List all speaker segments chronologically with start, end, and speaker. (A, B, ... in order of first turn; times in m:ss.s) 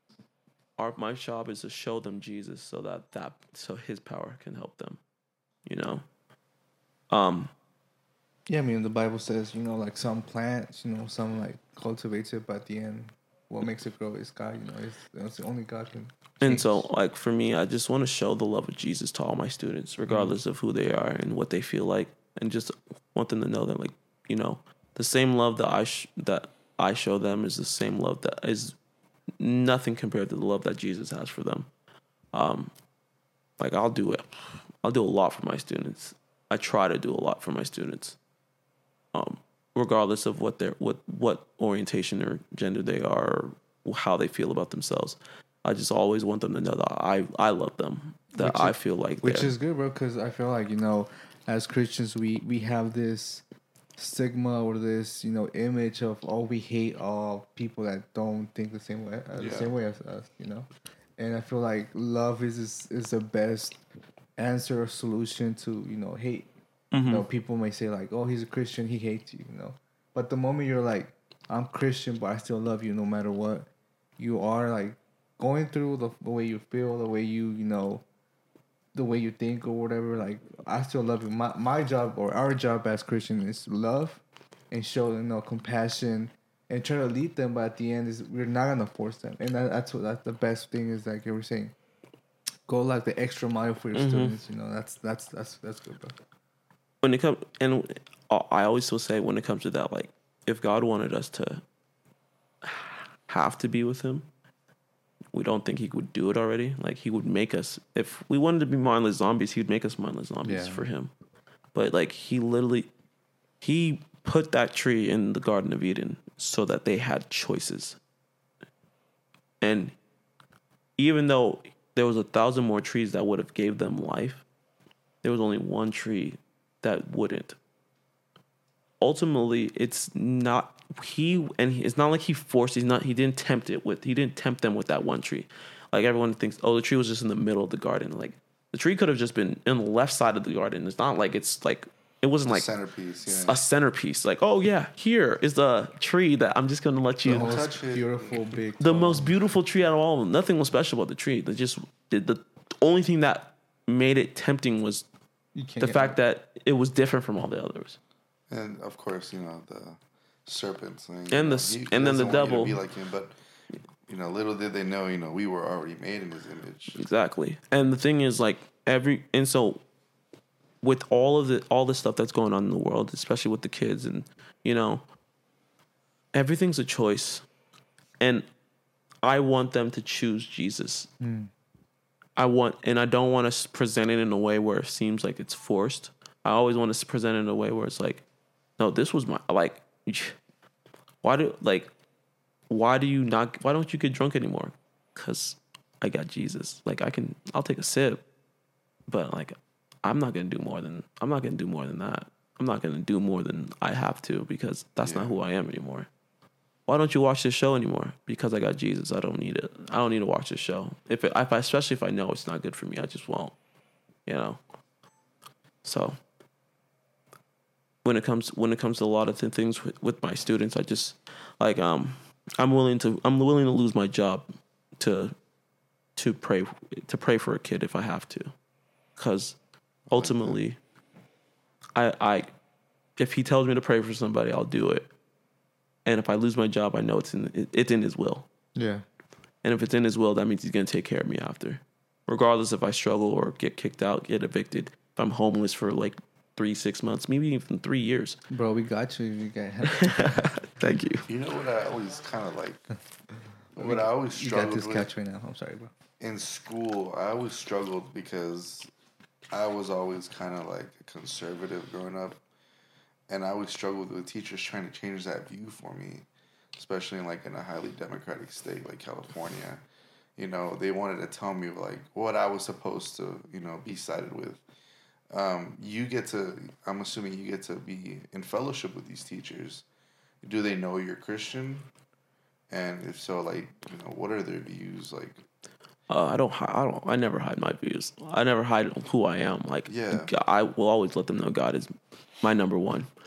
0:00.8-0:05.0 A
0:05.7-0:06.0 A
0:07.1-0:07.5 A
0:08.5-0:16.9 B
0:16.4-0:28.8 A
0:20.1-0:20.4 B
0:29.4-0:31.7 A
0:32.3-0:32.7 A
0:33.6-0:34.3 A
0:34.8-0:38.2 A
0:39.1-0:49.5 A
0:48.4-0:53.4 B
0:54.0-1:03.8 B
0:59.4-0:59.7 C
1:04.4-1:06.5 B
1:06.9-1:07.3 A
1:07.1-1:18.0 B
1:18.9-1:31.7 B
1:32.7-1:36.2 B
1:33.9-1:34.4 A
1:37.0-1:41.6 A
1:42.6-1:44.3 A
1:45.3-1:51.1 A
1:50.4-1:50.8 B
1:51.7-1:52.9 A
1:53.6-1:58.0 A
1:59.6-2:00.0 A
2:01.0-2:04.4 A
2:05.2-2:07.6 A
2:09.0-2:22.7 A
2:22.5-2:23.6 C
2:23.3-2:27.6 A
2:27.2-2:29.4 B
2:27.3-2:28.6 C
2:28.8-2:35.1 A
2:35.6-2:36.2 B
2:35.8-2:38.0 A
2:38.5-2:43.4 C
2:41.3-2:42.8 A
2:44.1-2:47.0 C
2:47.0-2:49.8 A
2:50.8-2:55.0 A
2:56.3-2:57.4 A
2:58.2-2:58.5 A
2:59.2-3:01.1 A
3:01.2-3:01.5 B
3:02.4-3:08.2 A
3:08.8-3:10.4 A
3:11.2-3:11.9 A
3:12.7-3:18.2 A
3:19.1-3:26.1 A
3:25.0-3:25.3 C
3:26.9-3:33.6 A
3:34.3-3:34.6 A
3:35.8-3:36.2 A
3:38.0-3:44.5 A
3:45.0-3:45.4 A
3:46.2-3:48.5 A
3:49.2-3:49.6 A
3:50.1-3:50.6 C
3:50.1-3:50.8 A
3:52.0-3:52.5 A
3:53.2-3:55.1 A
3:56.0-3:58.5 A
3:58.8-3:59.0 B
3:59.6-4:08.4 A
4:08.5-4:10.5 B
4:09.9-4:11.3 A
4:11.3-4:12.9 C
4:13.7-4:15.9 B
4:13.8-4:15.1 C
4:16.2-4:18.9 C
4:19.5-4:22.4 C
4:23.3-4:29.8 C
4:30.4-4:34.6 C
4:35.3-4:39.8 C
4:40.4-4:41.9 C
4:42.7-4:45.4 C
4:46.1-4:53.1 A
4:49.9-4:50.3 C